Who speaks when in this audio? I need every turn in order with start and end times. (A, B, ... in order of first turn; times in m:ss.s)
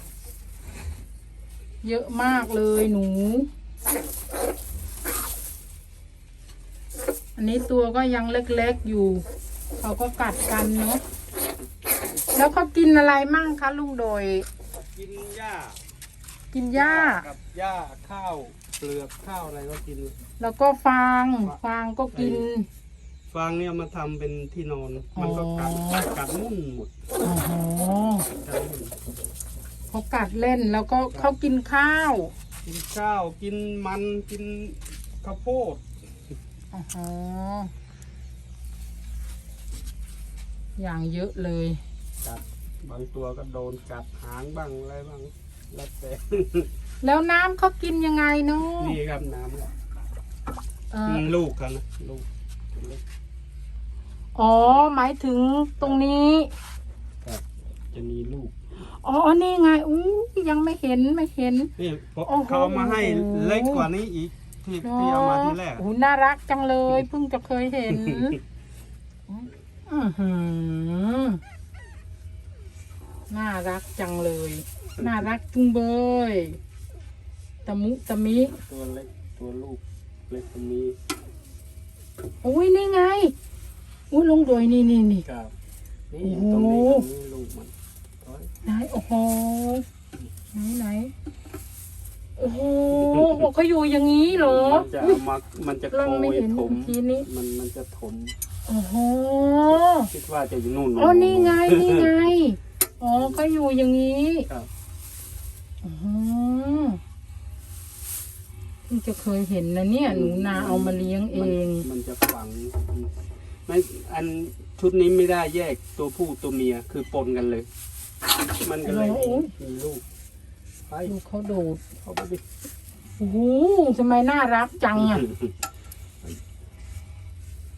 0:01.8-0:03.5 A
0:07.4-0:09.2 A
0:09.8-0:11.0 A
0:12.3-0:14.5 A
0:14.9-0:15.8 B
0:16.5-0:17.3 A
0:16.7-0:20.2 B
0:20.4-0:22.7 A
0:22.1-0:22.5 B
0:23.3-0:26.9 B
0:25.2-0:26.0 A
0:27.2-0:28.3 A
0:28.4-0:29.0 B
0:29.9-0:32.3 A
0:32.6-0:35.8 B
0:36.7-0:37.7 A
0:40.8-0:41.8 A
0:42.2-0:46.7 B
0:47.0-0:49.0 A
0:48.7-0:49.7 B
0:50.9-0:51.3 A
0:51.1-0:53.0 B
0:54.4-0:56.5 A
0:57.2-0:58.5 B
0:58.8-1:01.7 A
1:01.8-1:05.8 B
1:02.3-1:03.9 A
1:04.8-1:08.4 A
1:08.0-1:08.4 B
1:09.3-1:11.4 A
1:13.3-1:16.6 A
1:15.0-1:15.2 B
1:17.6-1:18.6 A
1:18.5-1:21.0 B
1:22.4-1:23.3 A
1:24.1-1:25.3 A
1:25.2-1:25.5 B
1:26.1-1:28.5 B
1:26.2-1:27.1 A
1:28.6-1:29.8 A
1:30.5-1:31.1 A
1:32.4-1:35.2 A
1:32.9-1:33.5 B
1:34.3-1:38.4 B
1:35.9-1:37.3 A
1:38.7-1:40.1 A
1:39.7-1:42.3 B
1:41.0-1:44.5 A
1:45.8-1:47.0 A
1:48.9-1:51.9 A
1:50.0-1:53.1 B
1:53.7-1:57.7 B
1:58.6-2:00.0 B
1:58.8-1:59.5 A
2:00.9-2:01.2 B
2:01.1-2:01.8 A
2:02.0-2:02.4 B
2:03.2-2:05.2 A
2:05.0-2:05.5 B